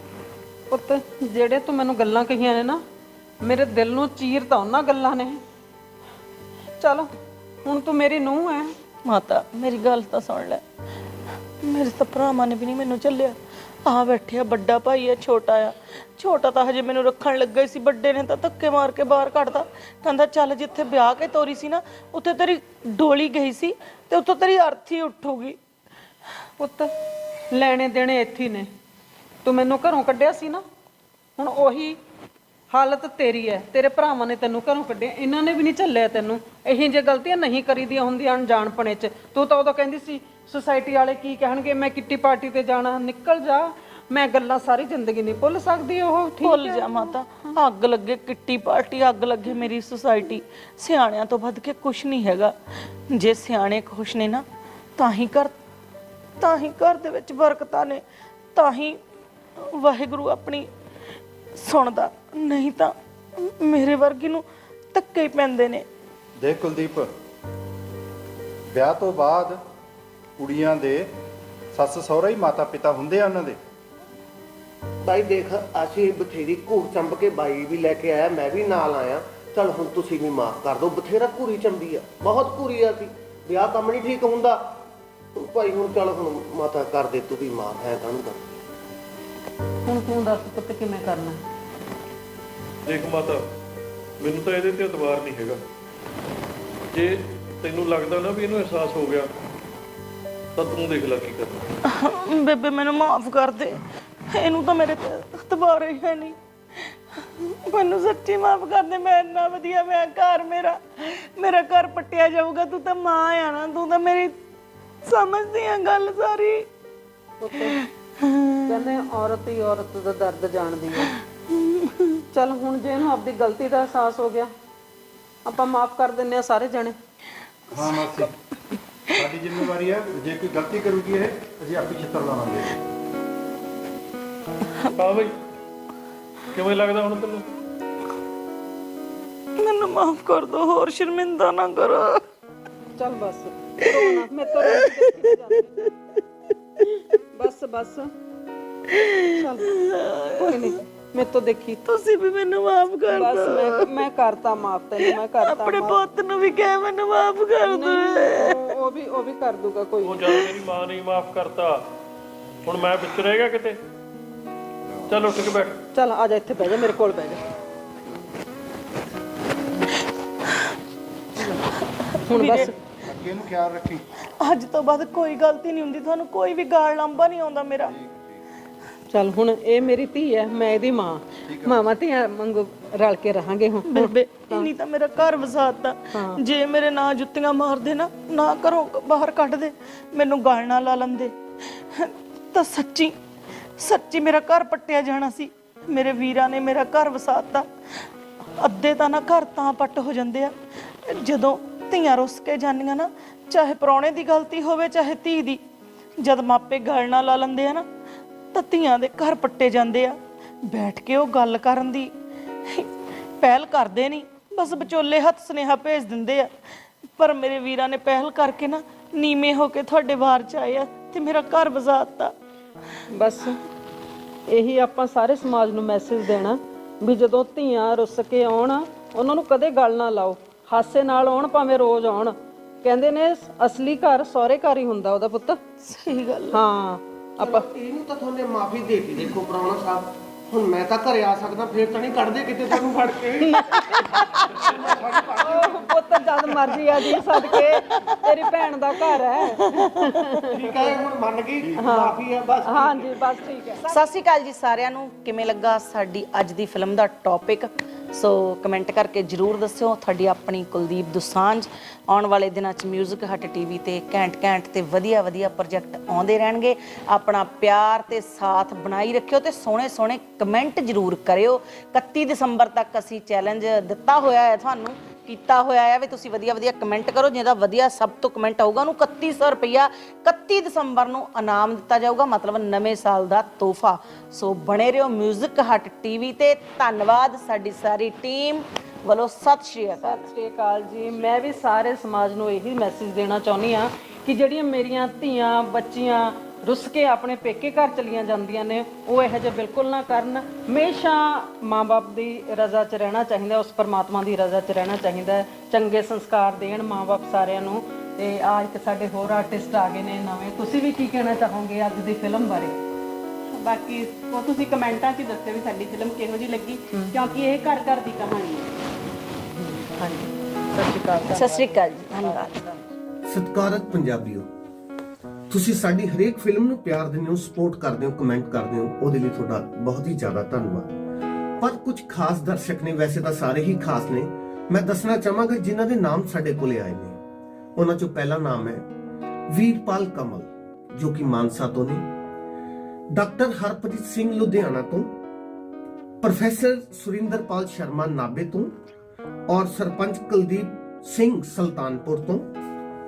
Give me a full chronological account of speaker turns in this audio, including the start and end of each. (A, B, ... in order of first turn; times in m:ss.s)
0:00.7-0:02.8 A
0:03.4-0:05.4 A
0:06.8-0:07.1 A
0:07.6-0:08.7 A
0:09.0-0:10.6 B
0:11.6-0:25.6 B
0:26.6-0:26.9 A
0:27.5-0:28.7 A
0:29.4-0:30.6 A
0:31.4-0:32.0 A
0:32.7-0:47.1 A
0:46.4-0:54.4 B
0:55.0-0:55.5 B
0:56.4-0:58.0 B
0:58.5-0:59.0 B
0:59.6-1:00.7 B
1:01.6-1:05.9 B
1:06.4-1:07.1 C
1:08.7-1:09.6 C
1:10.4-1:11.1 C
1:11.7-1:13.6 C
1:15.0-1:24.8 D
1:25.4-1:28.4 D
1:29.9-1:31.4 A
1:32.9-1:33.4 E
1:34.2-1:35.6 E
1:36.9-1:39.3 E
1:40.6-1:41.7 E
1:41.8-1:46.4 B
1:47.2-1:54.4 B
1:55.0-1:56.7 B
1:57.4-1:57.8 A
1:58.2-1:58.6 B
1:58.7-2:01.1 A
2:01.6-2:02.2 B
2:02.3-2:04.5 A
2:05.4-2:07.0 A
2:07.7-2:08.3 C
2:09.1-2:12.8 C
2:15.0-2:15.3 E
2:16.5-2:17.5 E
2:19.6-2:22.2 B
2:23.0-2:25.8 A
2:23.9-2:25.9 B
2:27.4-2:28.1 A
2:28.9-2:30.8 B
2:29.3-2:29.7 A
2:30.4-2:31.8 A
2:31.8-2:33.9 B
2:33.1-2:36.0 A
2:35.0-2:38.8 B
2:37.6-2:40.3 A
2:40.0-2:41.8 E
2:42.6-2:43.8 E
2:45.1-2:45.8 E
2:45.9-2:47.4 A
2:52.3-2:52.7 A
2:52.3-2:52.7 B
2:53.0-2:54.0 C
2:54.4-2:57.9 B
2:57.9-2:58.4 C
2:59.1-3:04.7 A
3:01.5-3:01.9 C
3:03.8-3:13.2 B
3:06.1-3:06.4 A
3:13.8-3:17.7 B
3:18.6-3:25.6 B
3:26.2-3:27.9 B
3:28.5-3:32.1 B
3:32.7-3:36.5 B
3:37.2-3:42.3 B
3:43.1-3:43.6 A
3:44.5-3:55.6 A
3:55.8-3:56.6 B
3:56.5-3:57.7 A
3:57.4-4:06.0 D
4:03.5-4:04.4 A
4:05.4-4:10.6 A
4:07.5-4:08.6 B
4:09.1-4:10.4 B
4:10.5-4:13.2 D
4:11.8-4:14.0 A
4:13.9-4:50.3 B
4:50.0-5:12.8 A
5:13.5-5:18.7 F
5:19.6-5:21.7 A
5:21.3-5:22.7 B
5:23.3-5:24.5 D
5:25.5-5:30.9 D
5:31.6-5:37.2 D
5:37.8-5:38.9 D
5:39.5-5:42.0 D
5:43.1-5:45.1 D
5:46.2-5:48.7 D
5:49.5-5:52.4 D